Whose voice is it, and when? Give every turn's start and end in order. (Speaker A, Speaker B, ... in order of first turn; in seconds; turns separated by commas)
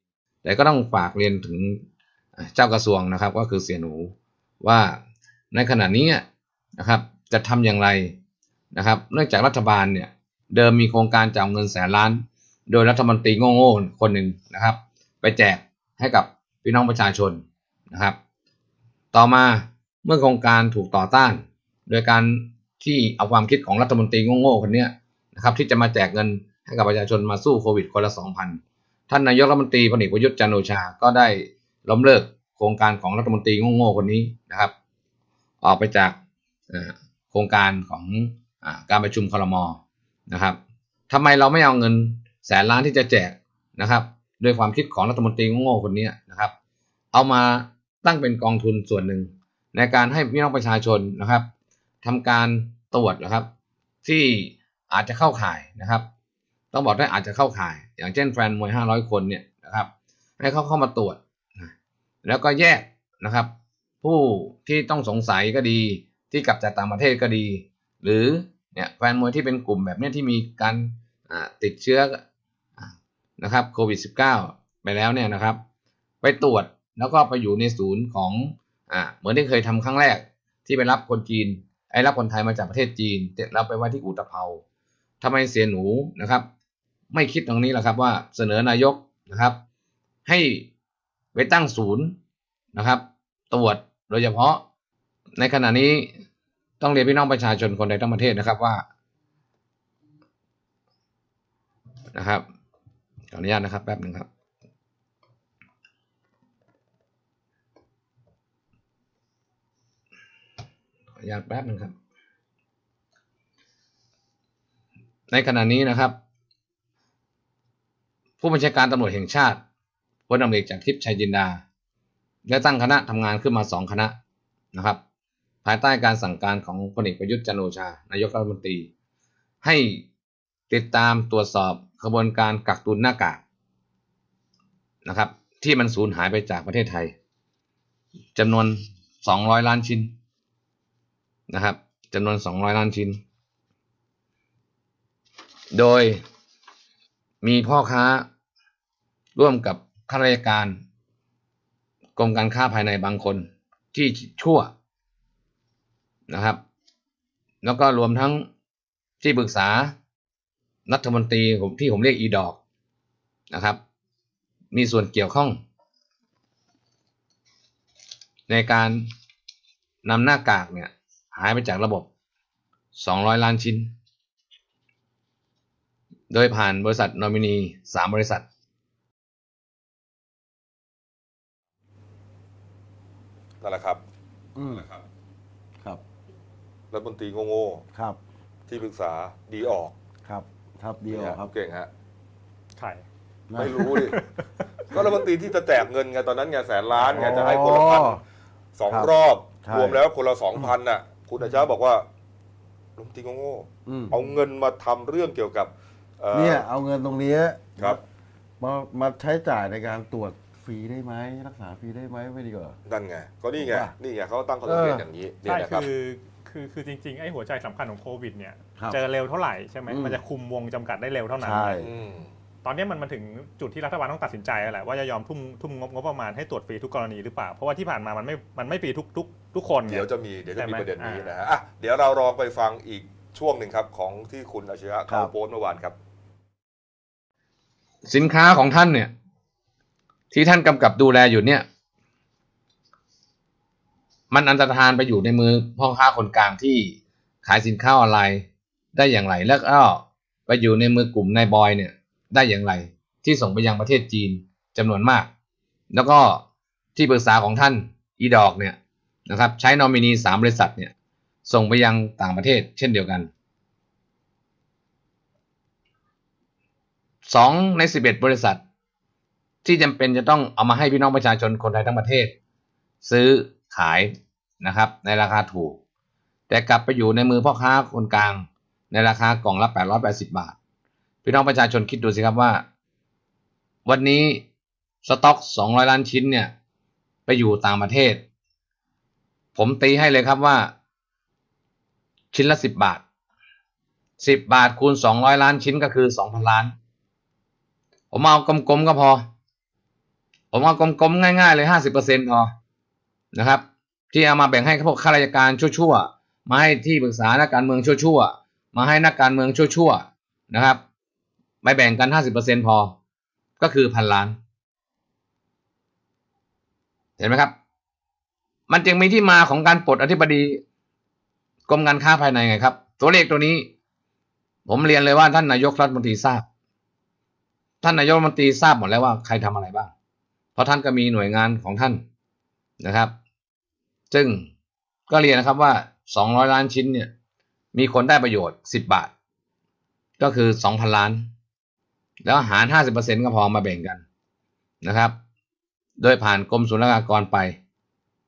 Speaker A: 0.4-1.8, Speaker A: 2.4-5.0, Speaker A: 5.5-6.2, Speaker A: 6.8-8.1, Speaker A: 8.7-18.1, Speaker A: 19.1-34.7, Speaker A: 35.6-36.1, Speaker A: 36.7-39.8, Speaker A: 40.3-40.6, Speaker A: 41.1-46.5, Speaker A: 47.1-51.5, Speaker A: 52.0-53.5, Speaker A: 54.0-56.0, Speaker A: 56.7-59.9, Speaker A: 60.4-61.7, Speaker A: 62.2-63.5, Speaker A: 64.0-72.2, Speaker A: 72.8-75.6, Speaker A: 76.2-84.6, Speaker A: 85.2-86.4, Speaker A: 87.1-89.5, Speaker A: 90.2-90.7, Speaker A: 91.3-92.1, Speaker A: 92.7-94.6, Speaker A: 95.4-96.1, Speaker A: 96.8-98.8, Speaker A: 102.1-102.4, Speaker A: 103.3-104.3, Speaker A: 111.2-111.9, Speaker A: 115.3-116.1, Speaker A: 118.4-119.6, Speaker A: 120.3-121.6, Speaker A: 122.5-124.1, Speaker A: 124.7-125.0, Speaker A: 125.6-128.9, Speaker A: 129.6-130.0, Speaker A: 130.7-133.4, Speaker A: 135.0-137.1, Speaker A: 138.3-140.1, Speaker A: 141.5-143.2, Speaker A: 145.7-146.2, Speaker A: 147.4-148.2, Speaker A: 149.3-150.8, Speaker A: 152.2-154.7, Speaker A: 156.3-156.6, Speaker A: 157.6-158.4, Speaker A: 159.2-159.9, Speaker A: 160.9-162.6, Speaker A: 163.5-163.8, Speaker A: 164.7-165.6, Speaker A: 168.5-169.0, Speaker A: 170.0-172.1, Speaker A: 172.9-173.9, Speaker A: 176.3-178.4, Speaker B: 183.6-184.0, Speaker C: 184.6-184.9, Speaker B: 184.7-185.0, Speaker B: 186.9-187.8, Speaker C: 187.9-188.2, Speaker B: 188.7-189.9, Speaker C: 190.2-191.5, Speaker B: 191.1-191.9, Speaker D: 192.8-193.0, Speaker C: 193.5-194.0, Speaker B: 193.6-194.2, Speaker D: 193.9-195.0, Speaker B: 194.9-198.2, Speaker C: 197.0-198.2, Speaker B: 198.7-202.1, Speaker C: 199.6-200.0, Speaker B: 203.0-206.7, Speaker C: 203.8-204.2, Speaker C: 206.3-208.0, Speaker C: 208.6-212.8, Speaker B: 212.8-215.9, Speaker C: 213.6-213.9, Speaker C: 214.6-215.0, Speaker D: 215.4-221.8, Speaker C: 219.9-220.2, Speaker C: 221.4-221.9, Speaker B: 221.8-222.3, Speaker D: 222.6-230.1, Speaker B: 229.8-235.9, Speaker D: 230.6-231.4, Speaker A: 238.1-239.1, Speaker A: 240.3-241.6, Speaker A: 244.3-255.3, Speaker A: 255.9-256.4, Speaker A: 256.9-260.9, Speaker A: 261.4-263.3, Speaker A: 267.2-268.6, Speaker A: 269.6-272.3, Speaker A: 273.0-275.8, Speaker A: 276.5-280.5, Speaker A: 281.2-282.6, Speaker A: 283.9-284.4, Speaker A: 285.0-286.5, Speaker A: 287.3-288.2, Speaker A: 289.6-290.7, Speaker A: 292.3-293.0, Speaker A: 294.2-296.7, Speaker A: 298.1-299.2, Speaker A: 300.5-302.5, Speaker A: 303.3-310.8, Speaker A: 311.6-312.9, Speaker A: 313.6-314.4, Speaker A: 317.2-317.5, Speaker A: 318.7-320.6, Speaker A: 321.7-323.7, Speaker A: 324.7-326.4, Speaker A: 327.8-329.9, Speaker A: 330.6-332.0, Speaker A: 332.8-333.1, Speaker A: 334.1-334.5, Speaker A: 335.1-337.1, Speaker A: 337.7-339.1, Speaker A: 340.2-341.2, Speaker A: 342.2-344.0, Speaker A: 344.8-345.1, Speaker A: 346.0-347.6